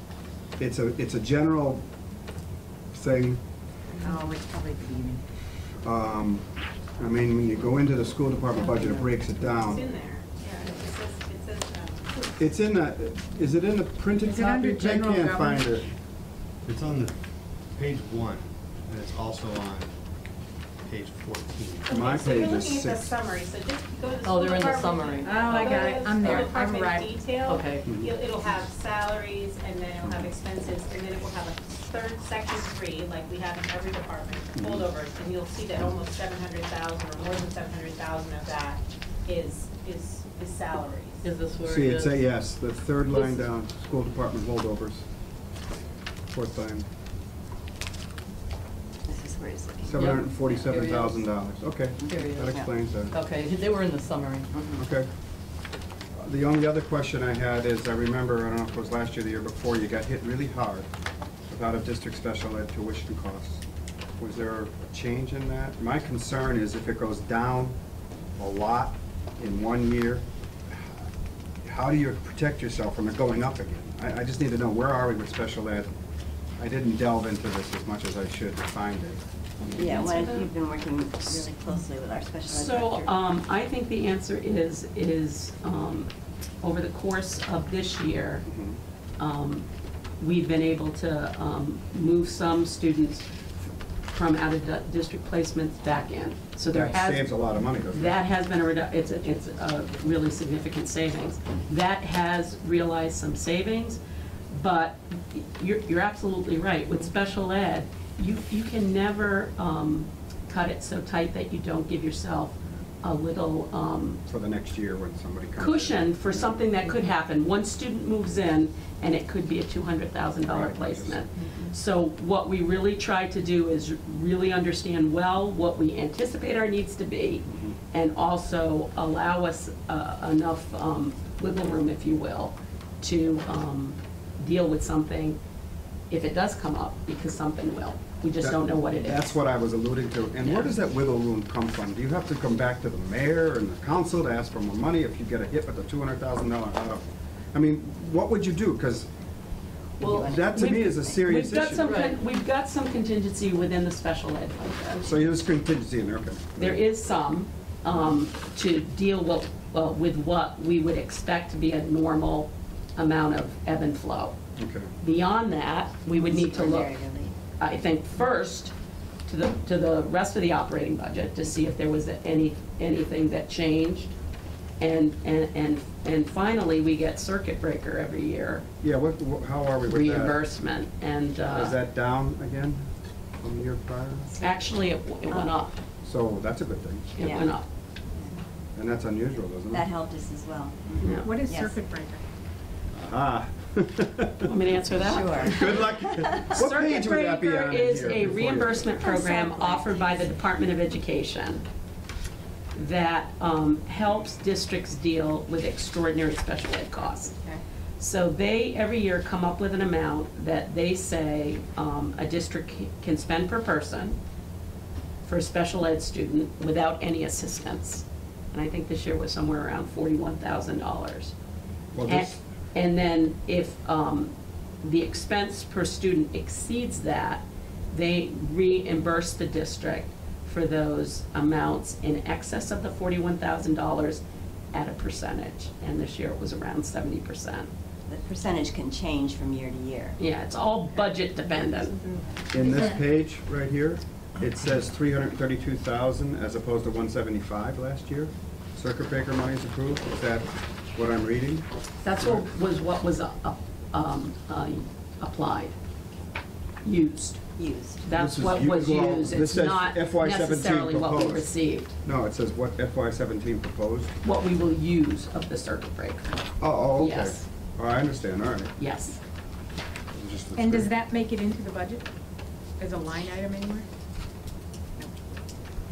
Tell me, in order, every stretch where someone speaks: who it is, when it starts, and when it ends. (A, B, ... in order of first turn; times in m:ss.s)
0:00.6-0:01.8 A
0:02.9-0:03.4 A
0:04.0-0:05.2 B
0:04.4-0:05.1 C
0:05.8-0:09.8 A
0:09.5-0:12.3 D
0:12.4-0:15.9 A
0:14.2-0:15.8 B
0:16.6-0:17.2 E
0:17.7-0:20.0 E
0:20.8-0:21.9 E
0:21.9-0:41.3 D
0:21.9-0:23.1 A
0:24.2-0:26.4 C
0:25.2-0:27.2 B
0:27.4-0:27.8 C
0:27.8-0:28.1 A
0:34.6-0:34.8 A
0:41.2-0:42.3 C
0:41.6-0:45.0 A
0:43.1-0:43.4 C
0:46.3-0:46.8 A
0:49.0-0:49.9 F
0:49.8-0:53.1 A
0:49.9-0:51.3 C
0:52.0-0:52.7 F
0:52.1-0:52.6 C
0:53.1-0:54.8 C
0:54.8-0:55.1 A
0:56.1-1:00.9 A
1:01.5-1:03.6 A
1:04.2-1:07.8 A
1:08.4-1:11.1 A
1:11.6-1:15.9 A
1:16.6-1:19.2 A
1:19.6-1:20.5 G
1:19.8-1:23.2 F
1:22.5-1:28.4 G
1:28.4-1:28.8 A
1:29.2-1:29.6 G
1:30.2-1:33.3 G
1:34.1-1:44.0 G
1:36.7-1:38.2 A
1:44.5-1:54.2 G
1:54.2-1:56.7 A
1:55.6-2:15.4 G
2:00.4-2:01.2 A
2:07.5-2:07.8 A
2:16.1-2:19.3 G
2:18.4-2:29.1 A
2:20.4-2:20.7 G
2:30.0-2:31.2 F
2:30.0-2:35.1 G
2:30.1-2:32.0 A
2:31.8-2:32.1 C
2:35.0-2:36.8 A
2:36.6-2:44.4 G
2:44.6-2:44.9 A
2:45.0-2:46.9 G
2:46.1-2:47.4 F
2:47.6-2:48.7 G
2:49.2-2:54.1 G
2:54.8-2:58.6 G
2:58.8-3:00.4 A
2:59.9-3:01.8 G
3:01.5-3:02.8 A
3:03.4-3:04.3 A
3:04.4-3:05.7 G
3:06.0-3:07.1 A
3:07.2-3:07.6 G
3:07.2-3:07.6 F
3:08.7-3:09.9 A
3:09.7-3:11.8 F
3:11.0-3:11.4 G
3:11.2-3:12.2 B
3:12.9-3:14.5 A
3:14.4-3:15.9 G
3:15.0-3:16.5 F
3:15.4-3:19.1 A
3:16.5-3:21.6 G
3:19.0-3:20.3 F
3:22.7-3:27.3 G
3:28.0-3:34.2 G
3:35.2-3:41.3 G
3:41.9-3:42.4 A
3:42.0-3:54.2 G
3:54.7-3:57.7 G
3:58.1-4:00.2 F
4:00.2-4:02.0 G
4:02.5-4:11.7 A
4:12.0-4:15.7 G
4:12.2-4:12.5 A
4:16.8-4:17.4 G
4:17.6-4:18.0 F
4:18.0-4:21.9 G
4:18.2-4:21.5 A
4:22.0-4:24.1 A
4:24.2-4:26.2 G
4:26.6-4:28.7 A
4:27.0-4:27.4 G
4:28.8-4:29.2 G
4:30.1-4:30.9 A
4:30.6-4:32.0 B
4:32.8-4:33.8 B